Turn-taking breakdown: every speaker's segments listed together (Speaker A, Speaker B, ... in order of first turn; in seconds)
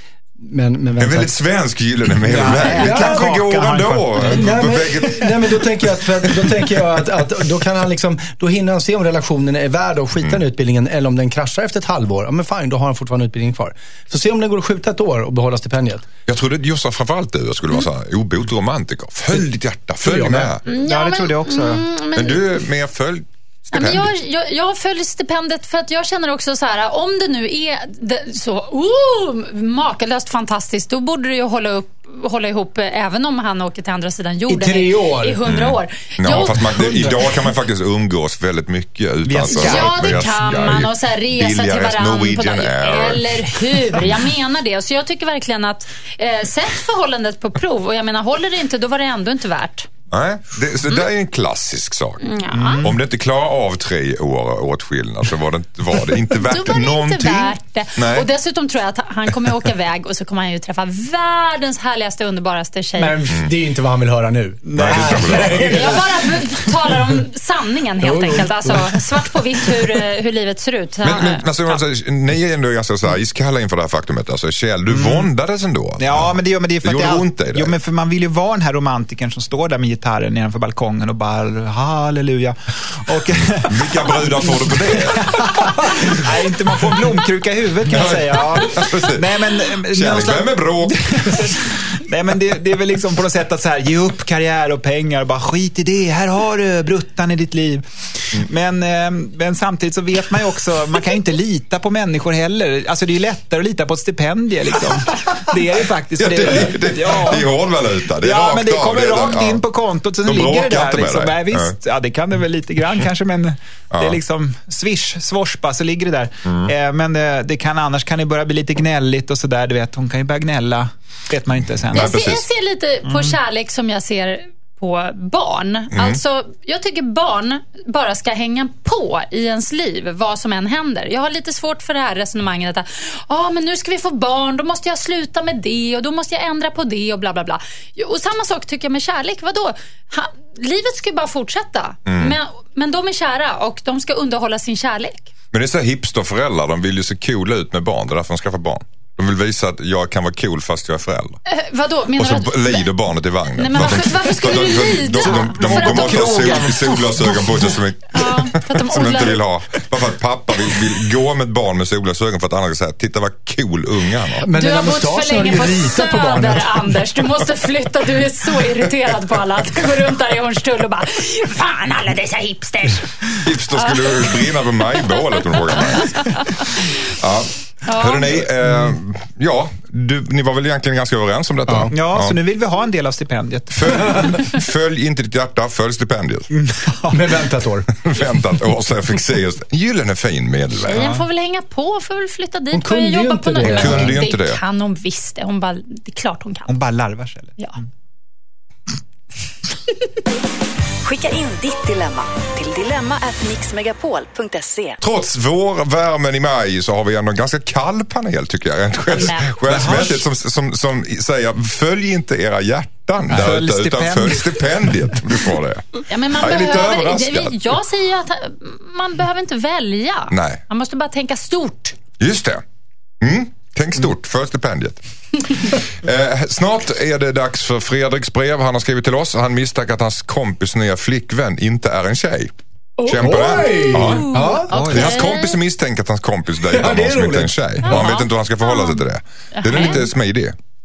Speaker A: 0.4-1.3, 2.3-3.1, 4.2-16.1, 20.0-20.5, 34.5-35.4, 36.8-37.2, 63.0-66.0, 68.0-70.0, 156.2-156.5, 164.4-167.2, 187.1-187.9, 192.7-194.2, 233.1-234.8, 236.6-237.8
Speaker B: 1.0-5.5, 16.3-20.6, 22.1-24.1, 35.4-44.1, 50.1-52.2, 52.8-58.3, 64.8-65.7, 71.0-77.8, 83.6-85.7, 87.9-89.2, 89.9-91.6, 106.2-109.6, 110.2-111.8, 116.5-116.7, 121.7-122.5, 125.9-126.2, 142.1-142.4, 145.5-151.4, 152.1-164.4, 173.4-182.4, 183.7-186.5, 188.0-191.0, 193.6-194.6, 205.0-217.7, 220.3-220.6, 222.2-222.6, 223.2-232.5, 233.1-240.6
Speaker C: 2.2-4.8, 20.2-21.9, 39.2-40.1, 52.5-53.0, 64.6-65.9, 74.9-75.3, 76.0-107.5, 108.2-122.2, 123.1-123.3, 155.7-157.7, 181.9-184.4, 186.5-187.4, 190.9-191.2, 196.7-197.6, 209.5-210.2, 213.2-214.9, 234.7-235.2
Speaker D: 20.6-22.6, 23.7-37.0, 39.5-49.9, 52.2-52.9, 56.5-63.2, 65.7-71.8, 121.9-145.3, 151.4-152.9, 153.5-156.9, 158.1-159.4, 164.5-173.1, 173.8-174.3, 177.8-178.4, 190.9-196.7, 209.1-210.2, 216.1-222.0, 233.0-235.6, 237.8-239.0, 239.5-240.1
Speaker E: 201.0-205.0